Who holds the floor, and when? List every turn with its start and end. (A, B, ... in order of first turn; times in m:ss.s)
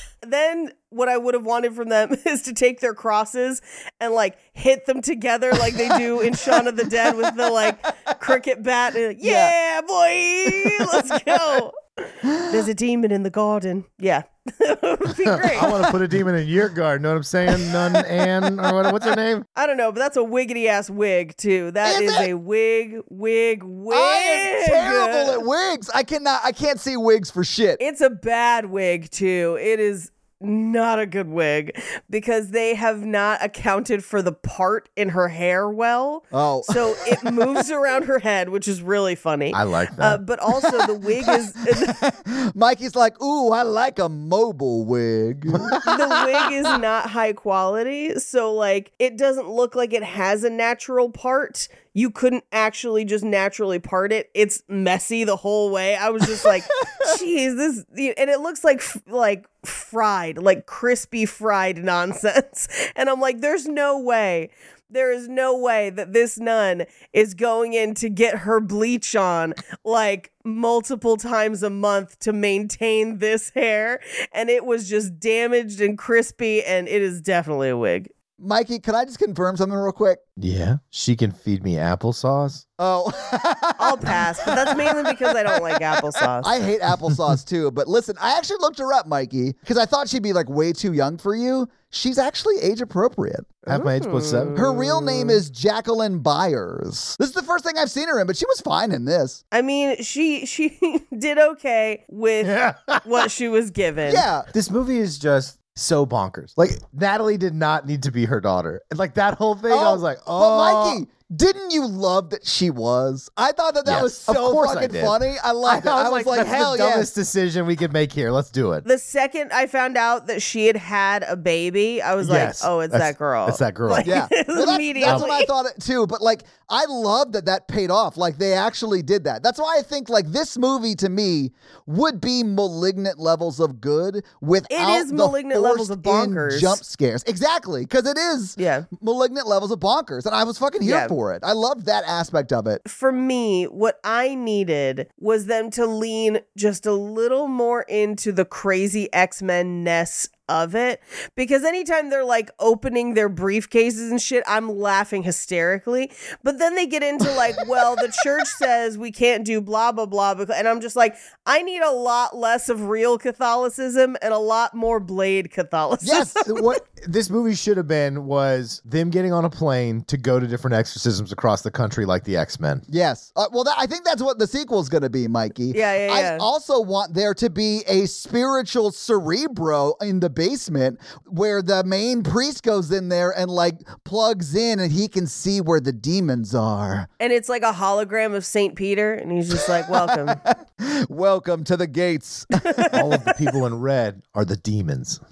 0:00.2-0:11.8 A
0:09.2-0:09.5 B
0:12.4-0:15.9 A
0:15.5-0:19.4 C
0:19.5-0:25.4 A
0:21.8-0:22.3 B
0:23.9-0:27.8 B
0:27.8-0:42.1 A
0:36.3-0:37.5 B
0:39.5-0:40.2 C
0:41.9-0:46.5 B
0:45.8-1:18.1 A
0:56.4-0:57.1 B
1:18.4-1:20.2 B
1:20.4-1:22.6 C
1:22.8-1:25.0 B
1:23.8-1:26.5 A
1:26.4-1:33.6 B
1:33.6-1:34.6 C
1:33.7-1:35.4 A
1:34.5-1:39.4 B
1:39.5-1:44.2 A
1:42.4-1:43.0 C
1:44.1-1:44.5 B
1:44.5-1:51.0 C
1:49.7-1:57.1 B
1:53.8-1:58.8 C
1:58.8-2:05.5 A
2:02.2-2:04.1 C
2:04.0-2:22.8 B
2:14.7-2:16.8 A
2:18.6-2:18.9 A
2:20.8-2:21.2 A
2:22.8-2:46.7 A
2:46.0-2:46.4 B
2:46.4-2:52.8 C
2:52.9-3:07.1 B
2:55.7-2:56.4 A
3:07.2-3:10.4 A
3:09.9-3:12.8 B
3:12.9-3:15.2 C